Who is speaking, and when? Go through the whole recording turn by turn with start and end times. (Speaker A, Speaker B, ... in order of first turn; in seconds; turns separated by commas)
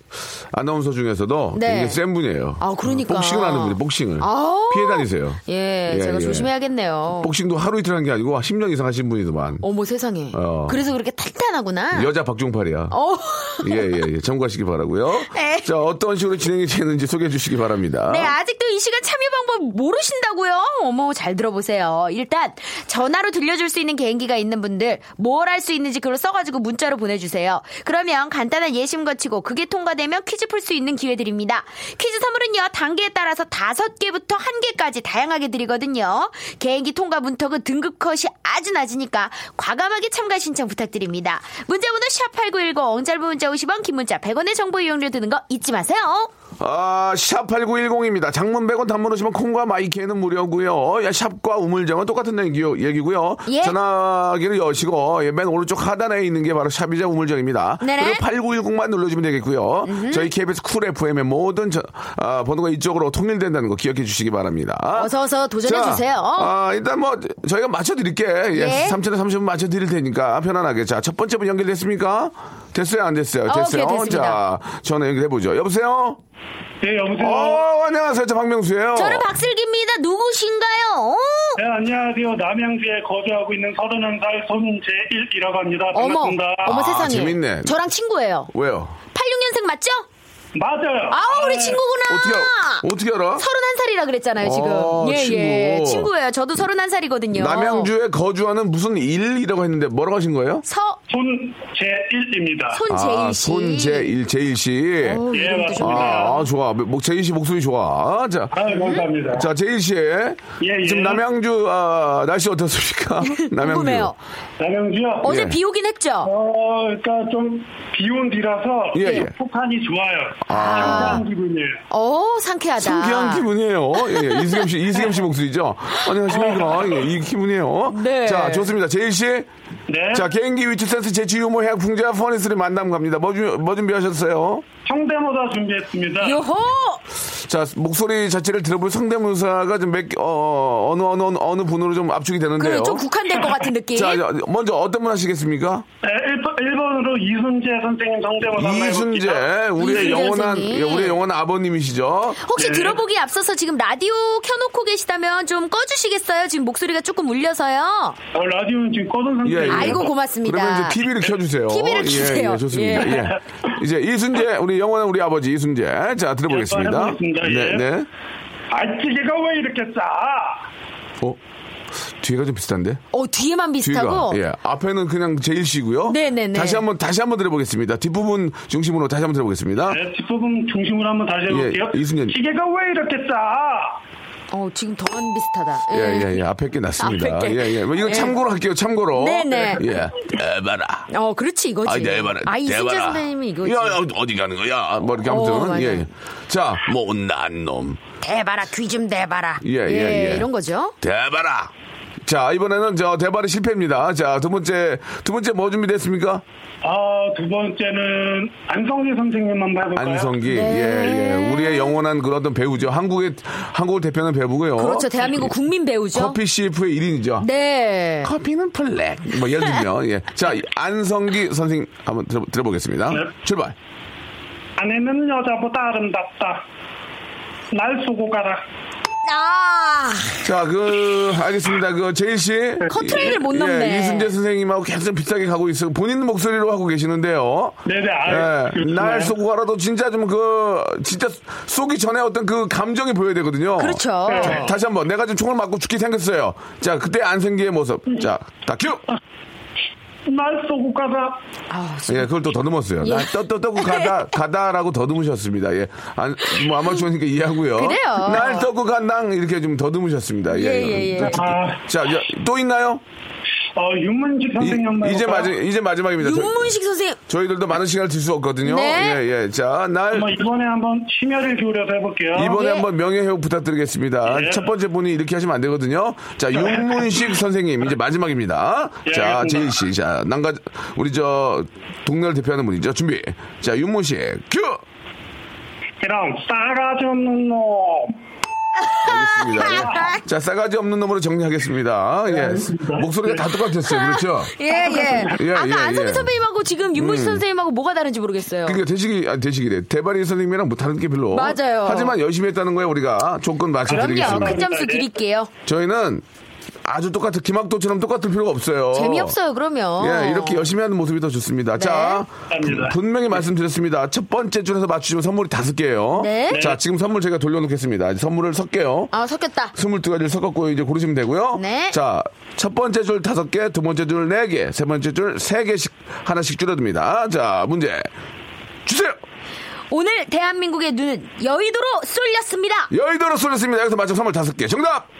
Speaker A: 0.5-6.5, Speaker B: 1.5-2.0, Speaker B: 2.6-7.3, Speaker A: 7.2-9.7, Speaker B: 9.6-12.1, Speaker A: 10.3-10.8, Speaker A: 11.9-13.0, Speaker B: 12.9-14.0, Speaker A: 13.6-18.4, Speaker B: 15.3-15.7, Speaker B: 18.1-46.3, Speaker A: 46.6-65.1, Speaker B: 53.5-53.8, Speaker B: 57.8-58.2, Speaker B: 59.9-60.3, Speaker B: 64.9-66.5, Speaker A: 65.6-76.2, Speaker B: 68.5-69.0, Speaker B: 73.5-74.4, Speaker C: 76.8-77.6, Speaker A: 77.2-79.3, Speaker B: 79.0-81.6, Speaker C: 81.6-86.7, Speaker B: 85.9-88.5, Speaker A: 86.7-87.8, Speaker A: 88.5-89.0, Speaker B: 89.1-90.1, Speaker C: 90.5-91.8, Speaker B: 91.1-97.9, Speaker A: 92.1-93.5, Speaker A: 94.4-96.1, Speaker A: 97.3-100.7, Speaker B: 100.7-101.0, Speaker C: 101.1-102.8, Speaker B: 102.7-104.2, Speaker A: 102.9-105.3, Speaker B: 105.0-106.5, Speaker C: 105.3-106.3, Speaker A: 105.8-108.7, Speaker C: 108.5-109.5, Speaker B: 108.7-109.0, Speaker A: 109.3-114.1, Speaker C: 110.6-111.2, Speaker B: 113.3-114.2, Speaker C: 114.6-115.3, Speaker A: 115.2-115.6, Speaker B: 115.2-116.3, Speaker C: 116.2-121.8, Speaker A: 118.9-119.3, Speaker A: 120.5-121.2, Speaker B: 120.5-121.2, Speaker B: 121.9-123.5, Speaker A: 122.8-129.5, Speaker B: 124.0-124.6, Speaker C: 126.3-127.0, Speaker B: 127.9-128.7, Speaker C: 129.9-130.3, Speaker A: 130.1-134.7, Speaker C: 134.9-136.4, Speaker B: 136.2-137.0, Speaker A: 137.3-143.1, Speaker B: 142.6-144.2, Speaker A: 143.9-145.8, Speaker C: 146.0-150.3, Speaker A: 148.5-152.4, Speaker B: 149.8-151.2, Speaker B: 152.4-158.2, Speaker C: 152.6-153.0, Speaker C: 158.3-160.1, Speaker A: 159.4-168.1, Speaker B: 159.7-161.0, Speaker B: 161.7-163.3, Speaker C: 163.0-163.4, Speaker C: 166.5-167.8, Speaker C: 168.7-170.7, Speaker A: 172.2-173.0, Speaker B: 173.1-174.4, Speaker A: 173.8-180.0, Speaker B: 176.1-176.8, Speaker C: 179.9-184.0, Speaker A: 181.5-182.4, Speaker B: 184.5-186.4, Speaker A: 185.9-191.1, Speaker B: 187.0-188.3, Speaker B: 189.2-189.9, Speaker B: 191.1-194.0, Speaker A: 191.8-198.0, Speaker B: 195.2-196.1, Speaker B: 198.2-201.0, Speaker A: 199.6-200.5, Speaker A: 201.0-201.7, Speaker A: 202.2-206.4, Speaker C: 206.8-210.4, Speaker A: 209.9-215.6, Speaker B: 210.5-212.0, Speaker B: 214.8-216.4, Speaker A: 216.1-217.5, Speaker B: 217.4-218.3, Speaker A: 218.2-223.8, Speaker C: 224.8-226.6, Speaker C: 227.7-228.6, Speaker B: 229.2-230.4, Speaker A: 230.4-249.0, Speaker B: 232.9-234.3, Speaker C: 233.1-233.3, Speaker C: 237.9-239.3, Speaker B: 243.8-244.7, Speaker C: 244.3-244.7, Speaker C: 250.3-251.4, Speaker B: 251.7-252.3, Speaker A: 252.1-263.0, Speaker B: 253.0-254.2, Speaker B: 257.8-258.7, Speaker B: 260.5-261.4, Speaker C: 261.2-261.8, Speaker C: 263.8-265.5, Speaker A: 264.6-266.8, Speaker B: 266.2-267.2, Speaker A: 267.3-270.4, Speaker B: 268.6-269.2, Speaker C: 270.1-272.6, Speaker A: 272.3-284.8, Speaker B: 272.5-272.9, Speaker C: 274.3-274.7, Speaker C: 276.5-277.2, Speaker C: 279.1-279.7, Speaker C: 286.0-288.2, Speaker B: 288.9-290.2, Speaker A: 289.0-294.6, Speaker C: 289.7-290.1, Speaker C: 292.3-293.5, Speaker B: 293.9-298.8, Speaker C: 294.7-295.4, Speaker A: 295.2-296.3, Speaker A: 296.9-297.4, Speaker A: 298.6-304.6, Speaker B: 301.3-302.2, Speaker C: 303.9-305.1, Speaker B: 303.9-305.5, Speaker A: 305.6-306.2, Speaker A: 306.9-309.4, Speaker B: 308.9-310.7, Speaker A: 310.0-319.1, Speaker B: 311.8-312.2, Speaker C: 312.5-313.0, Speaker B: 316.2-316.7, Speaker C: 316.5-316.8, Speaker B: 319.1-319.8, Speaker A: 319.7-328.1, Speaker B: 321.5-322.0, Speaker A: 328.9-329.2, Speaker B: 329.9-332.9, Speaker A: 332.9-335.1